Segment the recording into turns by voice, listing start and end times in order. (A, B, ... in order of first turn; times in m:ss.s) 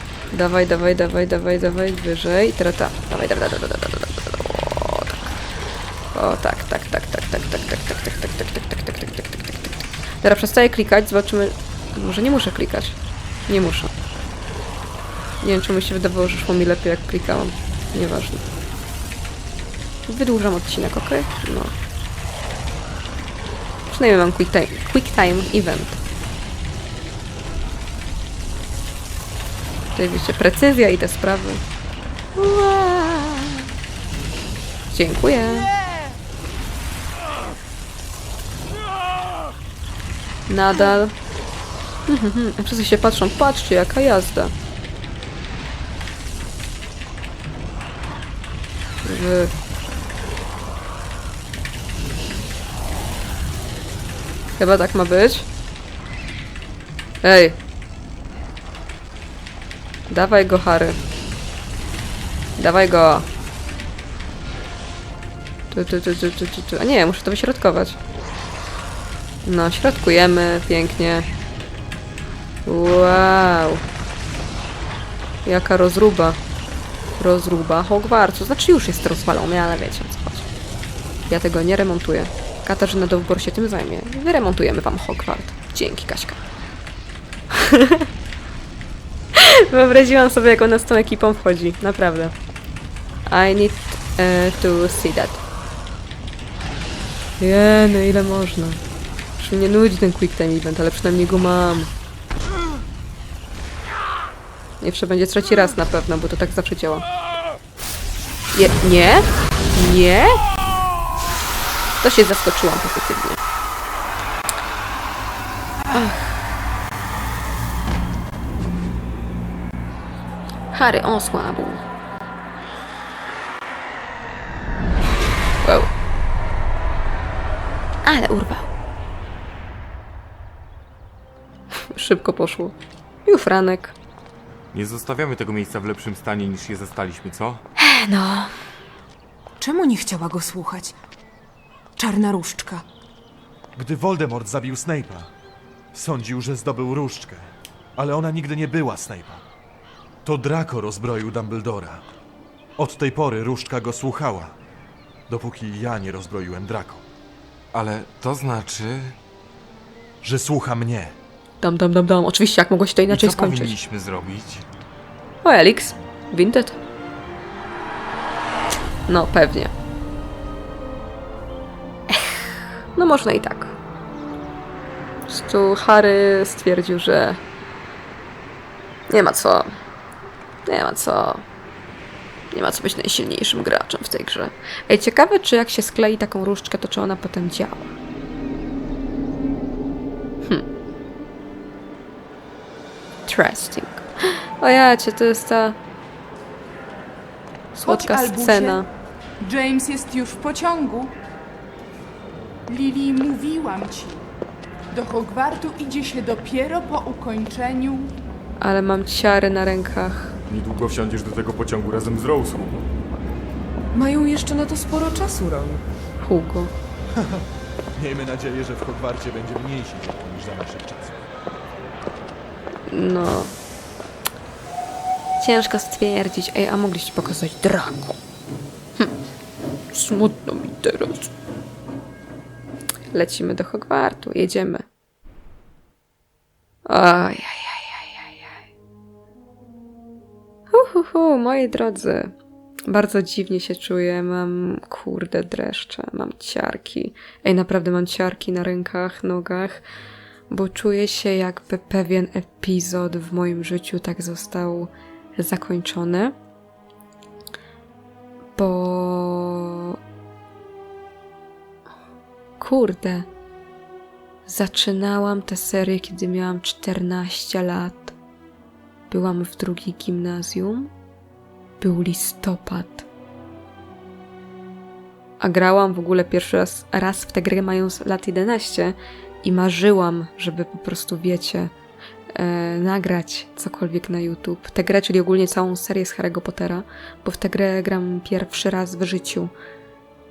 0:00.3-0:05.2 A
0:06.1-0:13.9 A
0:15.4-0:18.4 A
0:20.1-0:21.7 A
0:23.9-0:26.0 A
0:29.9-0:31.6 A
0:32.3-0:33.7 A
0:34.9-0:35.7 A
0:40.5-0:41.1 A
0:42.1-0:44.5 A
0:49.0-0:49.5 A
0:54.6-0:55.5 A
0:57.2-0:57.6 A
1:00.1-1:01.0 A
1:02.6-1:03.3 A
1:05.7-1:08.0 A
1:09.4-1:11.3 A
1:12.6-1:13.8 A
1:15.4-1:16.4 A
1:17.2-1:20.5 A
1:21.3-1:26.4 A
1:27.5-1:28.1 A
1:29.3-1:32.3 A
1:33.3-1:35.4 A
1:37.4-1:38.8 A
1:39.4-1:41.9 A
1:44.8-1:47.0 A
1:48.5-1:50.4 A
1:52.0-1:53.4 A
1:55.9-1:56.3 A
2:00.7-2:01.8 A
2:05.6-2:05.9 A
2:08.0-2:08.7 A
2:11.9-2:12.7 A
2:13.2-2:13.9 A
2:14.7-2:17.6 B
2:17.8-2:18.5 A
2:19.6-2:21.0 C
2:22.0-2:22.8 C
2:23.8-2:25.3 D
2:25.9-2:29.4 D
2:30.2-2:32.0 D
2:32.8-2:34.5 D
2:35.3-2:37.0 D
2:37.7-2:39.2 B
2:40.2-2:41.1 D
2:41.6-2:43.8 A
2:43.1-2:44.6 B
2:45.4-2:46.8 A
2:49.1-2:49.7 A
2:52.1-2:53.7 A
2:55.3-2:57.4 A
2:59.1-2:59.7 A
3:00.7-3:01.4 A
3:02.5-3:08.0 A
3:13.3-3:15.8 A
3:17.7-3:18.9 E
3:17.8-3:18.9 A
3:19.4-3:21.1 E
3:22.7-3:24.2 E
3:24.9-3:28.2 E
3:28.6-3:30.4 A
3:30.5-3:32.9 B
3:33.9-3:35.8 C
3:36.2-3:36.7 A
3:37.1-3:41.2 D
3:42.9-3:43.5 A
3:45.4-3:48.2 A
3:49.9-3:51.3 A
3:53.1-3:54.8 A
3:56.8-3:58.6 A
4:00.7-4:02.3 A
4:02.9-4:09.8 A
4:10.5-4:16.3 A
4:18.6-4:20.0 A
4:22.6-4:23.3 A
4:24.4-4:28.1 A
4:29.1-4:30.9 A
4:31.8-4:33.0 A
4:35.4-4:41.7 A
4:42.3-4:49.5 A